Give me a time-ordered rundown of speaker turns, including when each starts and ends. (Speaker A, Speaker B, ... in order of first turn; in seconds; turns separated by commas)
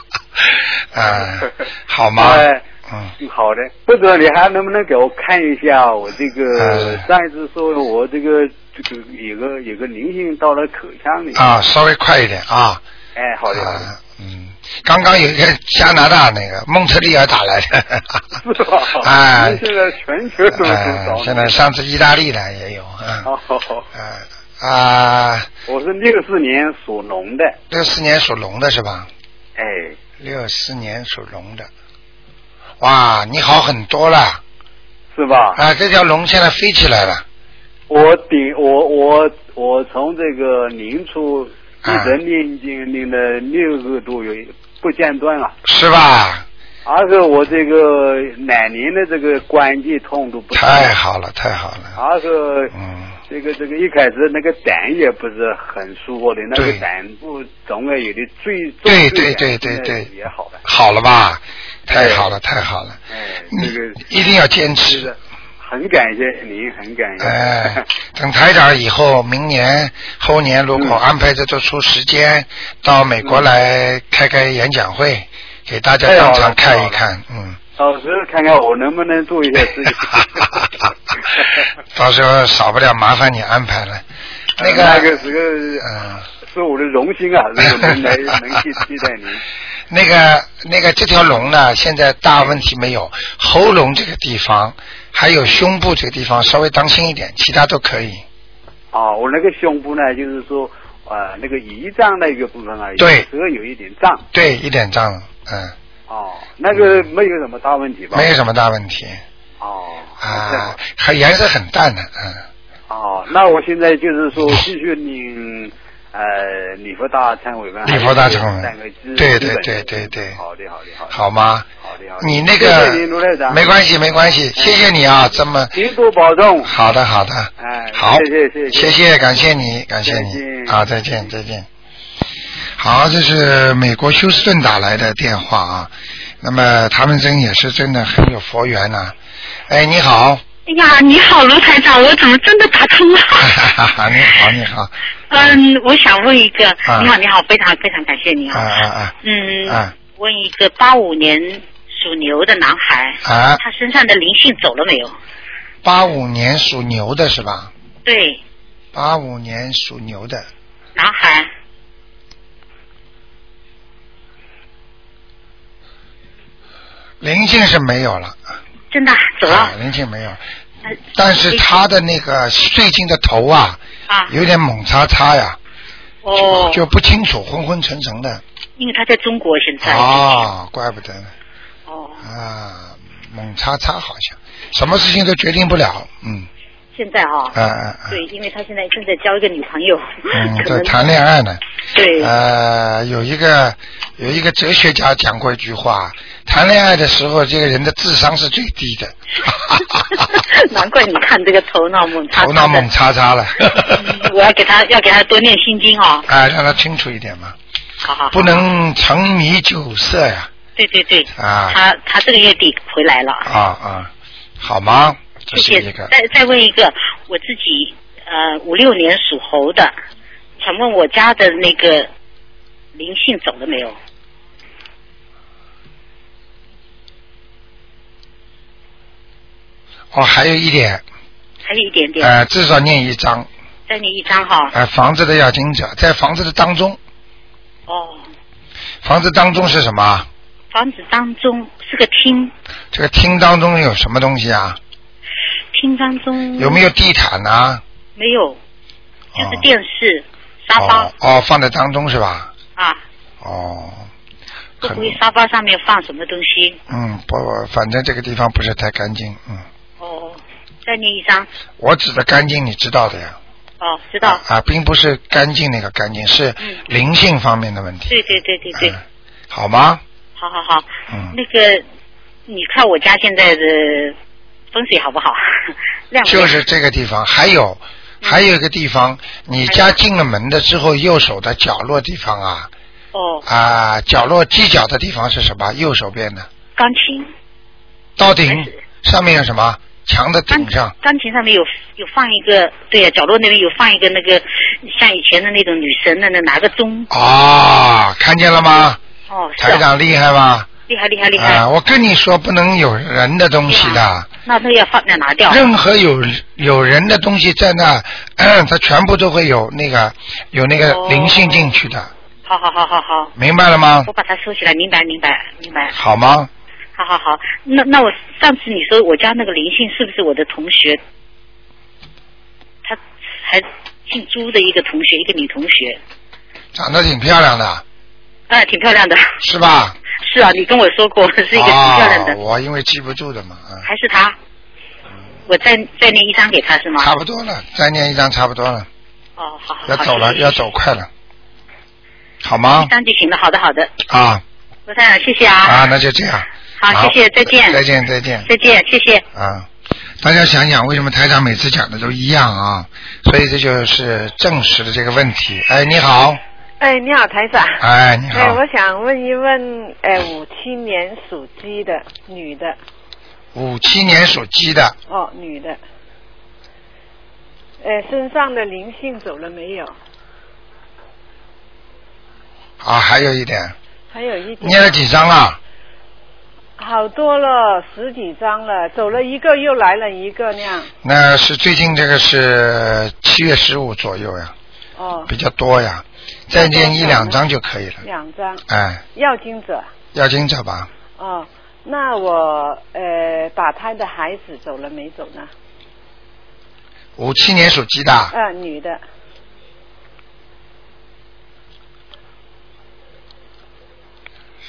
Speaker A: 0.4-3.1, Speaker B: 2.2-2.6, Speaker B: 3.2-11.4, Speaker A: 6.5-7.1, Speaker A: 11.3-12.8, Speaker B: 13.2-13.9, Speaker A: 13.5-18.3, Speaker B: 18.4-21.6, Speaker A: 19.0-19.6, Speaker A: 20.5-23.3, Speaker B: 23.2-23.9, Speaker A: 23.9-25.5, Speaker B: 25.7-27.6, Speaker A: 27.7-29.1, Speaker B: 29.6-30.0, Speaker A: 30.2-31.7, Speaker A: 32.8-34.4, Speaker B: 35.1-35.6, Speaker A: 35.6-37.2, Speaker B: 37.9-45.6, Speaker A: 41.9-42.2, Speaker A: 45.6-46.5, Speaker B: 46.9-51.0, Speaker A: 50.5-52.0, Speaker B: 52.0-52.7, Speaker A: 52.7-53.1, Speaker B: 53.3-60.6, Speaker A: 56.5-56.8, Speaker A: 58.9-60.1, Speaker A: 60.6-63.0, Speaker B: 61.9-62.3, Speaker B: 63.1-64.0, Speaker A: 63.5-65.1, Speaker B: 64.8-67.8, Speaker A: 67.2-77.6, Speaker B: 70.8-71.0, Speaker B: 76.0-77.0, Speaker B: 77.8-80.7, Speaker B: 81.3-81.6, Speaker A: 81.9-84.0, Speaker A: 84.6-85.2, Speaker B: 84.6-85.9, Speaker A: 85.8-86.2, Speaker B: 86.5-89.4, Speaker A: 87.7-88.1, Speaker A: 89.9-98.2, Speaker B: 98.9-104.2, Speaker A: 103.0-103.3, Speaker A: 104.3-105.8, Speaker B: 106.1-108.3, Speaker A: 106.7-107.1, Speaker A: 108.1-109.2, Speaker B: 109.6-110.8, Speaker A: 110.2-112.4, Speaker B: 112.9-121.2, Speaker A: 117.8-120.4, Speaker A: 121.1-121.7, Speaker B: 121.8-123.7, Speaker A: 122.2-125.8, Speaker B: 124.6-124.9, Speaker B: 125.7-126.7, Speaker A: 126.6-131.7, Speaker B: 127.6-129.0, Speaker B: 130.1-130.8, Speaker A: 132.8-139.2, Speaker A: 139.7-140.4, Speaker C: 140.7-143.6, Speaker A: 143.4-145.6, Speaker C: 145.3-148.7, Speaker A: 146.9-147.1, Speaker A: 148.5-149.2, Speaker C: 149.2-155.2, Speaker A: 149.7-149.9, Speaker A: 153.2-153.6, Speaker A: 155.8-157.7, Speaker C: 158.1-158.4, Speaker A: 158.9-160.5, Speaker C: 160.9-161.5, Speaker A: 167.2-168.4, Speaker C: 168.9-169.8, Speaker A: 169.5-170.4, Speaker A: 171.1-175.6, Speaker C: 171.5-171.8, Speaker C: 174.1-174.3, Speaker C: 176.2-176.8, Speaker A: 176.5-178.4, Speaker C: 178.8-180.5, Speaker A: 179.8-181.3, Speaker C: 181.9-182.2, Speaker A: 182.2-186.5, Speaker C: 186.9-187.6, Speaker A: 187.5-188.2, Speaker C: 188.1-191.0, Speaker A: 190.3-191.6, Speaker C: 191.9-192.3, Speaker A: 192.2-200.0, Speaker C: 200.1-202.9, Speaker A: 202.3-204.2, Speaker C: 203.9-206.3, Speaker A: 206.3-207.6, Speaker C: 208.0-208.6, Speaker A: 208.3-210.5, Speaker C: 210.8-213.5, Speaker A: 211.3-211.8, Speaker A: 213.4-216.1, Speaker C: 215.5-219.9, Speaker C: 220.6-222.1, Speaker C: 222.9-224.0, Speaker A: 230.1-231.0, Speaker C: 231.6-232.3, Speaker A: 232.2-233.5, Speaker C: 233.9-234.7, Speaker A: 234.7-237.0, Speaker C: 237.9-238.2, Speaker A: 239.0-240.3, Speaker C: 240.7-242.5, Speaker A: 242.9-244.8, Speaker C: 245.7-246.9, Speaker A: 246.6-247.8, Speaker C: 248.2-248.6, Speaker A: 249.3-249.7, Speaker C: 249.3-251.1, Speaker A: 250.8-252.5, Speaker C: 252.8-253.0, Speaker A: 253.4-254.1, Speaker C: 254.8-256.8, Speaker A: 254.8-255.2, Speaker A: 256.9-259.6, Speaker C: 260.0-261.5, Speaker A: 261.8-263.4, Speaker C: 263.8-264.4, Speaker A: 264.2-268.2, Speaker C: 268.1-269.0, Speaker A: 269.5-270.0, Speaker C: 270.4-271.9, Speaker A: 271.1-271.4, Speaker C: 272.5-274.1, Speaker C: 274.7-276.6, Speaker A: 276.2-282.7, Speaker C: 278.2-278.5, Speaker C: 279.7-280.0, Speaker C: 283.1-283.4, Speaker A: 283.4-286.5, Speaker C: 286.8-287.3, Speaker A: 288.2-290.9, Speaker C: 288.5-288.8, Speaker C: 290.5-297.1, Speaker A: 297.1-299.0, Speaker C: 299.3-299.9, Speaker A: 299.6-300.7, Speaker C: 300.9-301.6, Speaker A: 301.4-304.3, Speaker C: 303.7-305.6, Speaker A: 305.5-312.1, Speaker C: 310.8-311.8, Speaker C: 312.5-313.3, Speaker A: 313.4-314.1, Speaker C: 314.1-315.9, Speaker A: 315.9-316.5, Speaker C: 317.0-321.0, Speaker C: 322.9-326.0, Speaker A: 326.7-327.8, Speaker C: 328.5-329.3, Speaker A: 329.4-330.0, Speaker C: 330.1-332.4, Speaker A: 331.5-333.9, Speaker C: 333.8-334.4, Speaker C: 335.5-337.1, Speaker A: 337.0-338.9, Speaker C: 339.4-340.6, Speaker A: 339.9-341.1, Speaker A: 342.4-342.9, Speaker C: 342.7-343.9, Speaker A: 344.1-344.4, Speaker C: 344.9-345.9, Speaker A: 345.6-348.5, Speaker C: 346.8-347.8, Speaker C: 348.4-349.2, Speaker A: 349.3-349.7, Speaker A: 350.2-356.4, Speaker D: 356.8-362.8, Speaker A: 357.8-358.6, Speaker A: 363.5-365.0, Speaker D: 365.1-365.8, Speaker D: 367.8-369.9, Speaker A: 372.8-373.7, Speaker D: 374.1-375.0, Speaker A: 374.6-375.6, Speaker D: 376.8-380.9, Speaker A: 381.0-384.5, Speaker D: 385.0-385.3, Speaker A: 385.3-388.0, Speaker D: 386.5-387.4, Speaker D: 388.0-389.9, Speaker A: 388.7-389.0, Speaker A: 390.1-390.9, Speaker D: 391.2-395.5, Speaker A: 397.2-398.3, Speaker D: 398.3-399.0